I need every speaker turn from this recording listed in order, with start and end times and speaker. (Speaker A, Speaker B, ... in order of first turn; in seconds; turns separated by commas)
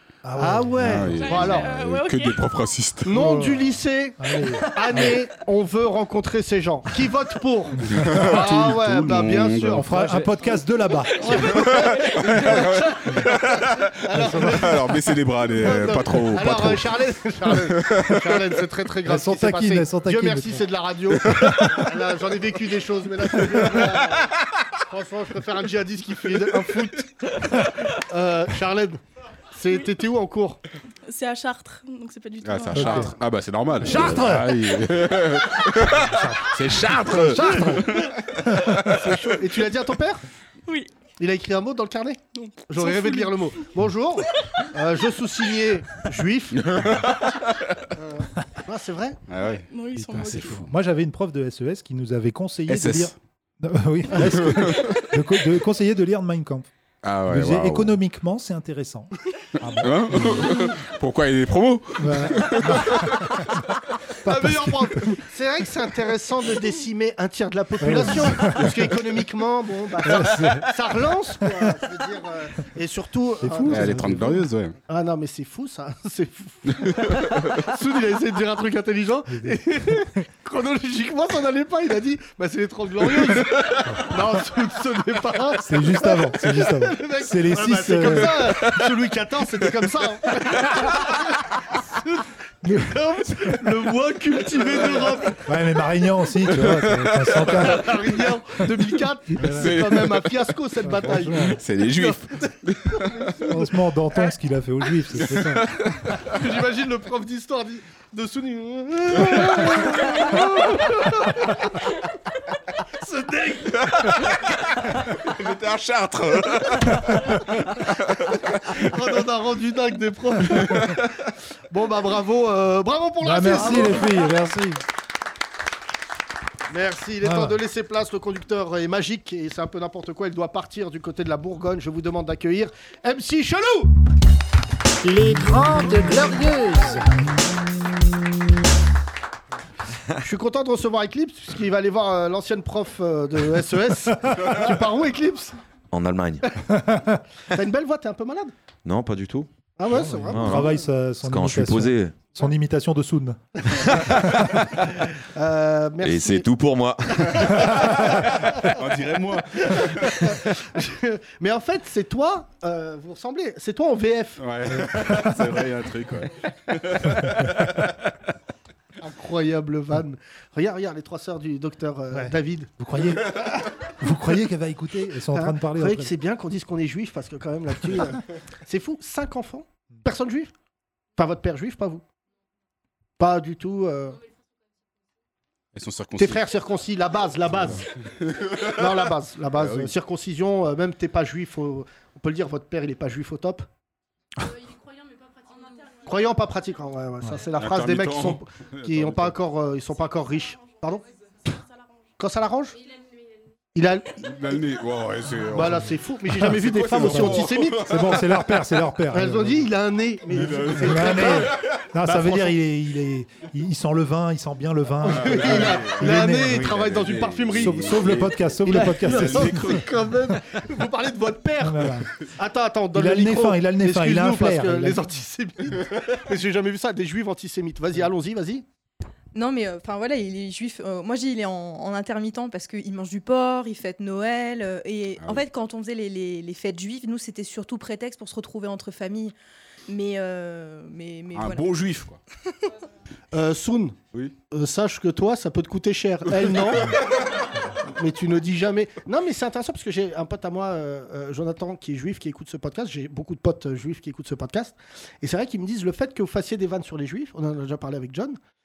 Speaker A: 0.2-1.7, Speaker B: 0.3-1.1, Speaker C: 0.8-3.2, Speaker D: 1.1-2.4, Speaker A: 3.0-10.5, Speaker B: 3.1-3.7, Speaker B: 4.2-5.2, Speaker C: 7.8-9.9, Speaker B: 7.9-8.2, Speaker B: 9.8-11.5, Speaker A: 11.1-14.9, Speaker D: 11.3-12.4, Speaker C: 11.3-14.0, Speaker B: 14.2-14.6, Speaker C: 14.5-18.4, Speaker A: 15.6-24.3, Speaker B: 19.1-20.6, Speaker A: 24.9-29.0, Speaker A: 29.5-30.6, Speaker D: 31.1-33.1, Speaker C: 32.4-39.0, Speaker B: 32.7-33.1, Speaker B: 33.8-34.5, Speaker B: 36.1-36.5, Speaker A: 37.1-40.2, Speaker B: 37.1-37.8, Speaker A: 41.2-47.0, Speaker D: 42.4-43.4, Speaker C: 46.7-47.0, Speaker A: 47.9-49.2, Speaker C: 49.3-49.6, Speaker D: 49.7-50.7, Speaker B: 50.0-56.7, Speaker C: 50.2-50.6, Speaker C: 52.7-53.1, Speaker C: 54.2-55.1, Speaker C: 57.0-58.0, Speaker B: 57.3-59.1, Speaker C: 59.6-63.3, Speaker B: 59.6-60.5, Speaker B: 62.0-62.9, Speaker B: 64.2-65.0, Speaker A: 64.2-74.0, Speaker B: 67.8-68.7, Speaker B: 70.0-70.6, Speaker B: 73.4-74.4, Speaker C: 73.7-74.8, Speaker A: 74.9-95.5, Speaker C: 77.0-77.4, Speaker B: 79.3-79.6, Speaker B: 85.6-88.6, Speaker B: 92.7-92.9, Speaker B: 95.5-97.9, Speaker C: 96.4-97.6, Speaker A: 97.4-103.7, Speaker B: 99.4-99.7, Speaker C: 99.5-100.4, Speaker B: 100.8-101.5, Speaker C: 101.5-103.6, Speaker B: 103.5-105.7, Speaker C: 105.1-106.3, Speaker A: 106.2-111.9, Speaker A: 113.0-113.9, Speaker C: 113.7-118.8, Speaker A: 118.8-121.0, Speaker C: 120.4-121.0, Speaker A: 121.7-124.3, Speaker B: 123.2-124.8, Speaker A: 126.7-133.9, Speaker B: 127.2-127.5, Speaker A: 140.2-145.5, Speaker E: 145.9-146.4, Speaker A: 147.5-148.5, Speaker E: 148.8-149.5, Speaker A: 149.8-150.9, Speaker B: 149.9-153.4, Speaker E: 150.2-152.3, Speaker A: 153.7-154.1, Speaker A: 155.0-156.5, Speaker E: 156.0-157.7, Speaker A: 157.4-158.8, Speaker C: 158.0-160.2, Speaker A: 159.6-164.4, Speaker C: 164.4-167.9, Speaker A: 169.0-173.6, Speaker B: 172.1-173.3, Speaker B: 174.0-176.1, Speaker A: 175.3-180.5, Speaker A: 181.2-182.0, Speaker A: 183.2-184.2, Speaker C: 185.7-186.4, Speaker A: 186.2-187.9, Speaker C: 188.3-188.7, Speaker A: 188.6-193.7, Speaker C: 189.6-189.9, Speaker A: 196.0-201.0, Speaker C: 197.6-199.3, Speaker D: 201.5-201.9, Speaker A: 202.2-202.8, Speaker A: 203.7-204.2, Speaker C: 204.2-208.4, Speaker A: 205.5-208.0, Speaker B: 206.9-209.7, Speaker A: 209.1-212.5, Speaker C: 210.3-211.9, Speaker B: 210.5-216.7, Speaker A: 215.0-228.6, Speaker C: 215.0-219.9, Speaker B: 217.5-219.6, Speaker B: 221.6-222.0, Speaker B: 222.9-225.0, Speaker F: 229.3-239.3, Speaker C: 235.2-235.4, Speaker F: 239.9-241.7, Speaker C: 241.3-242.2, Speaker A: 243.3-244.0, Speaker A: 244.5-247.0, Speaker A: 247.9-258.4